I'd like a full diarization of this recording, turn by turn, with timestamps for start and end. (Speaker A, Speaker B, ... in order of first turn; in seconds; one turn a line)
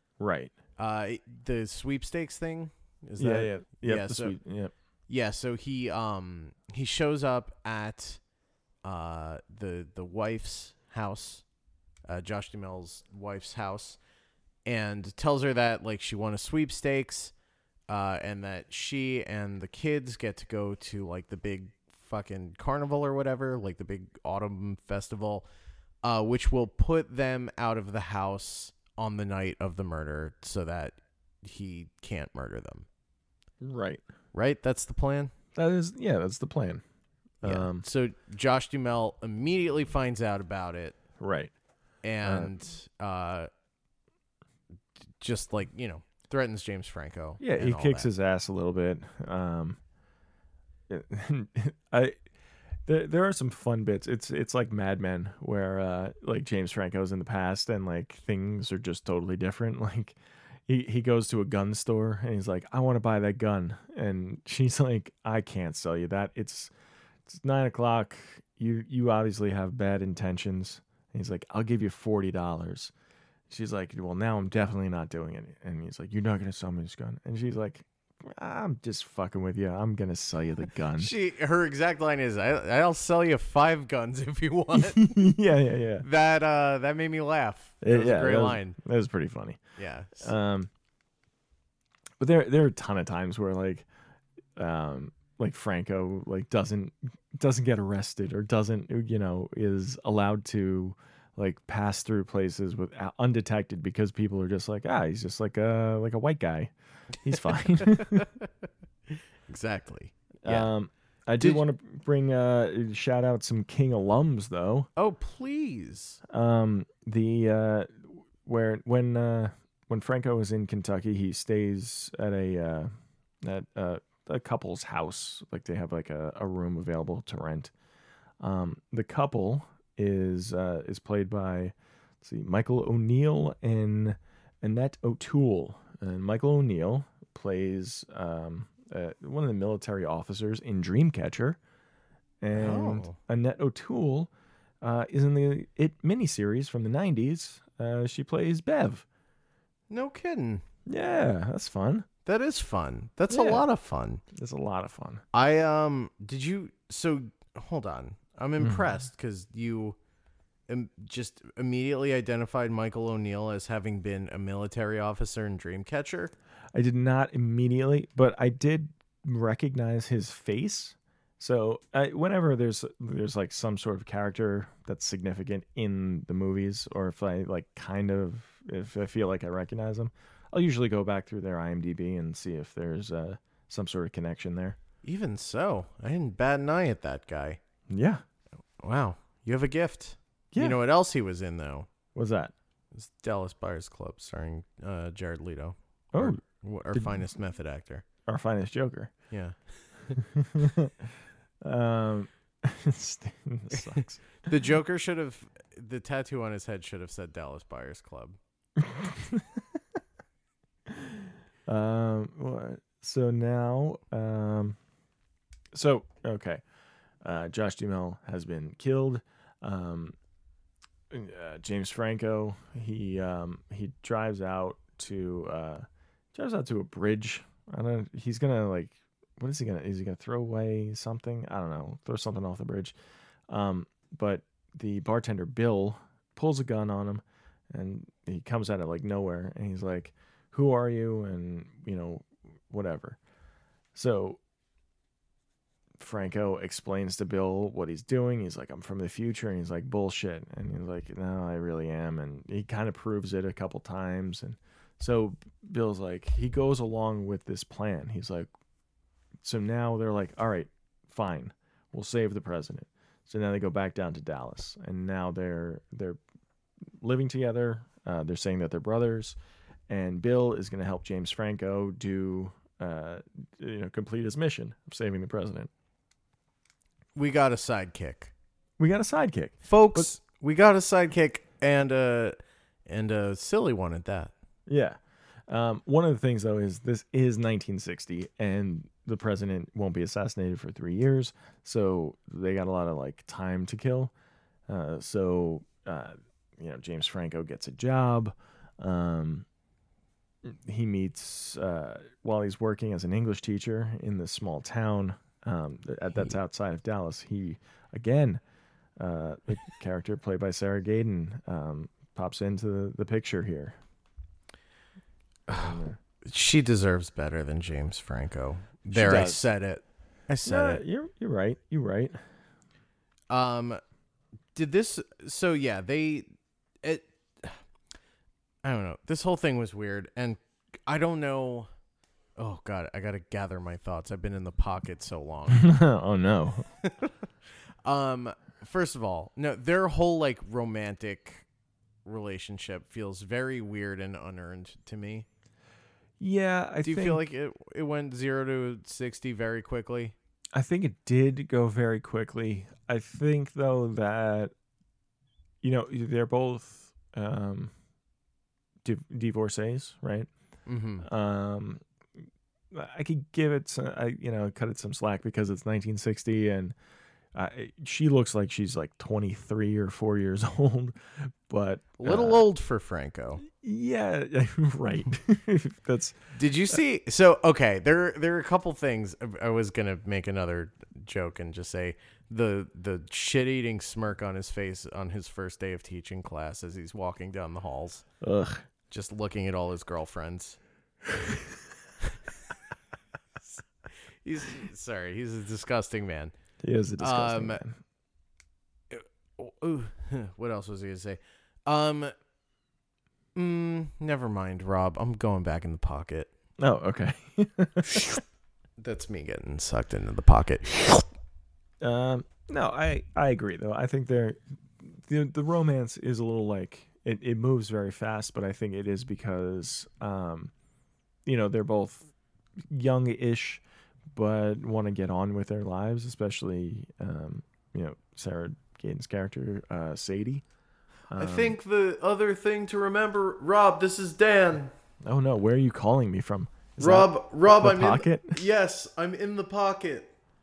Speaker A: 0.2-0.5
Speaker B: 0.8-4.4
Speaker A: 3.2-4.7
Speaker B: 5.1-8.2
Speaker B: 8.8-11.4
Speaker B: 12.1-14.0
Speaker B: 14.6-17.3
Speaker B: 17.9-25.4
Speaker B: 26.0-32.9
Speaker A: 33.6-34.0
Speaker B: 34.3-35.3
Speaker A: 35.5-36.8
Speaker A: 37.4-37.8
Speaker B: 37.4-41.0
Speaker A: 41.2-41.5
Speaker B: 42.0-43.5
Speaker A: 42.2-42.5
Speaker B: 45.2-48.1
Speaker A: 47.4-49.8
Speaker A: 50.9-52.2
Speaker A: 52.9-66.7
Speaker A: 67.3-72.9
Speaker A: 73.5-81.1
Speaker B: 81.0-85.2
Speaker A: 84.7-86.0
Speaker B: 86.0-88.8
Speaker A: 87.8-89.6
Speaker B: 89.8-90.3
Speaker A: 90.2-90.7
Speaker A: 92.2-93.8
Speaker A: 94.5-108.3
Speaker B: 107.8-108.5
Speaker B: 109.1-110.7
Speaker A: 110.4-114.9
Speaker B: 115.0-116.2
Speaker A: 116.3-122.9
Speaker A: 123.4-127.7
Speaker A: 128.4-141.6
Speaker A: 142.4-144.3
Speaker B: 142.5-143.2
Speaker A: 144.8-149.0
Speaker B: 149.9-150.6
Speaker A: 150.8-152.1
Speaker B: 152.2-154.2
Speaker A: 153.3-153.7
Speaker A: 154.3-155.2
Speaker B: 155.3-159.9
Speaker A: 158.6-158.9
Speaker B: 160.7-166.3
Speaker A: 166.7-184.8
Speaker B: 185.0-187.6
Speaker A: 187.9-188.2
Speaker B: 188.8-191.9
Speaker A: 190.5-190.8
Speaker A: 192.1-192.5
Speaker B: 192.9-198.0
Speaker A: 196.1-196.4
Speaker A: 196.9-197.2
Speaker A: 198.2-199.1
Speaker B: 199.3-200.2
Speaker A: 200.2-201.1
Speaker A: 201.6-204.3
Speaker B: 203.7-208.4
Speaker A: 208.8-209.6
Speaker A: 210.9-214.8
Speaker A: 215.7-216.6
Speaker A: 217.2-220.2
Speaker A: 221.1-232.9
Speaker A: 233.5-243.2
Speaker A: 243.9-244.4
Speaker A: 246.0-258.5
Speaker A: 259.4-266.2
Speaker A: 267.0-269.4
Speaker A: 269.9-275.7
Speaker B: 277.1-278.3
Speaker A: 278.8-280.1
Speaker B: 279.7-284.3
Speaker A: 284.7-294.1
Speaker A: 294.7-299.4
Speaker A: 300.4-308.4
Speaker A: 309.0-313.8
Speaker A: 315.5-316.0
Speaker B: 315.5-320.8
Speaker A: 318.9-319.4
Speaker A: 320.4-322.2
Speaker B: 323.3-323.8
Speaker B: 324.5-326.3
Speaker B: 326.8-327.6
Speaker B: 328.6-331.7
Speaker B: 332.4-335.7
Speaker A: 335.5-336.7
Speaker B: 336.8-337.1
Speaker B: 337.8-341.4
Speaker B: 342.0-345.2
Speaker A: 346.2-347.2
Speaker B: 346.8-350.1
Speaker A: 350.5-354.5
Speaker A: 355.6-357.7
Speaker A: 358.8-360.3
Speaker B: 360.6-361.1
Speaker A: 361.0-361.8
Speaker A: 362.7-366.7
Speaker A: 367.3-372.4
Speaker B: 372.0-373.4
Speaker A: 373.4-376.1
Speaker B: 376.3-388.0
Speaker A: 388.2-388.6
Speaker B: 388.9-390.6
Speaker B: 394.2-396.3
Speaker A: 396.6-397.8
Speaker B: 397.0-397.6
Speaker B: 398.9-402.1
Speaker B: 403.3-406.3
Speaker A: 406.6-408.1
Speaker B: 408.8-411.1
Speaker A: 411.8-420.5
Speaker A: 421.2-430.4
Speaker A: 431.1-431.6
Speaker B: 431.2-434.7
Speaker A: 435.0-438.4
Speaker B: 436.8-440.1